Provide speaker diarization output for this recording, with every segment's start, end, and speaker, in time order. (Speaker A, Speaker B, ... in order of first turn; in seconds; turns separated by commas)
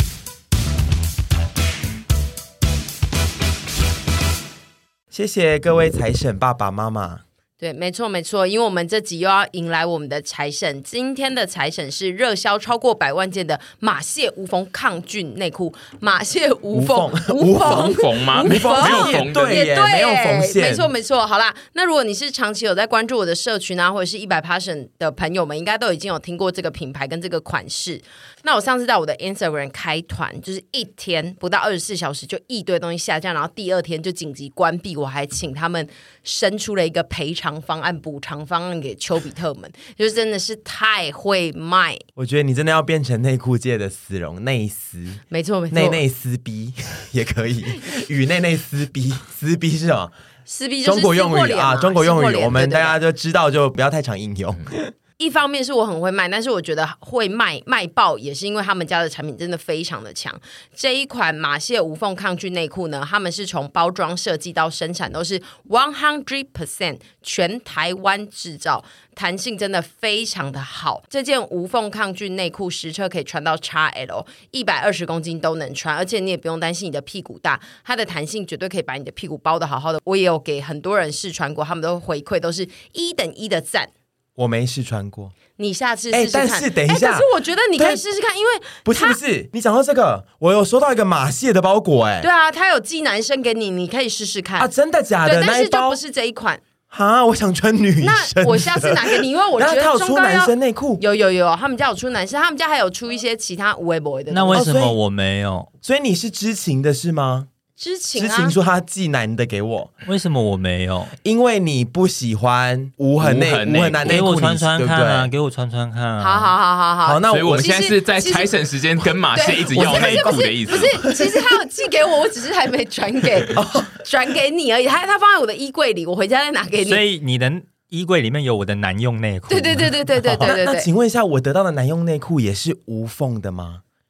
Speaker A: 5.1-7.2, Speaker B: 7.6-42.0, Speaker A: 16.7-20.9, Speaker C: 17.6-19.7, Speaker A: 42.2-50.1, Speaker B: 45.3-46.0, Speaker B: 50.5-53.0, Speaker A: 50.8-54.9, Speaker B: 55.2-83.9, Speaker A: 84.4-85.3, Speaker B: 85.6-89.2, Speaker A: 86.1-88.0, Speaker A: 88.8-92.3, Speaker B: 92.2-94.7, Speaker A: 94.6-96.0, Speaker B: 95.2-96.6, Speaker A: 96.9-101.0, Speaker B: 98.0-104.7, Speaker D: 104.3-105.7, Speaker A: 104.5-105.0, Speaker A: 105.8-107.5, Speaker B: 107.8-108.5, Speaker A: 108.2-109.9, Speaker D: 110.0-111.1, Speaker A: 111.2-115.3, Speaker C: 113.2-114.2, Speaker D: 114.0-116.5, Speaker B: 116.2-118.6, Speaker A: 117.0-117.7, Speaker C: 117.3-121.0, Speaker B: 119.3-127.0, Speaker A: 119.8-121.4, Speaker A: 123.5-123.9, Speaker D: 126.8-130.5, Speaker B: 129.5-130.9, Speaker A: 130.4-133.8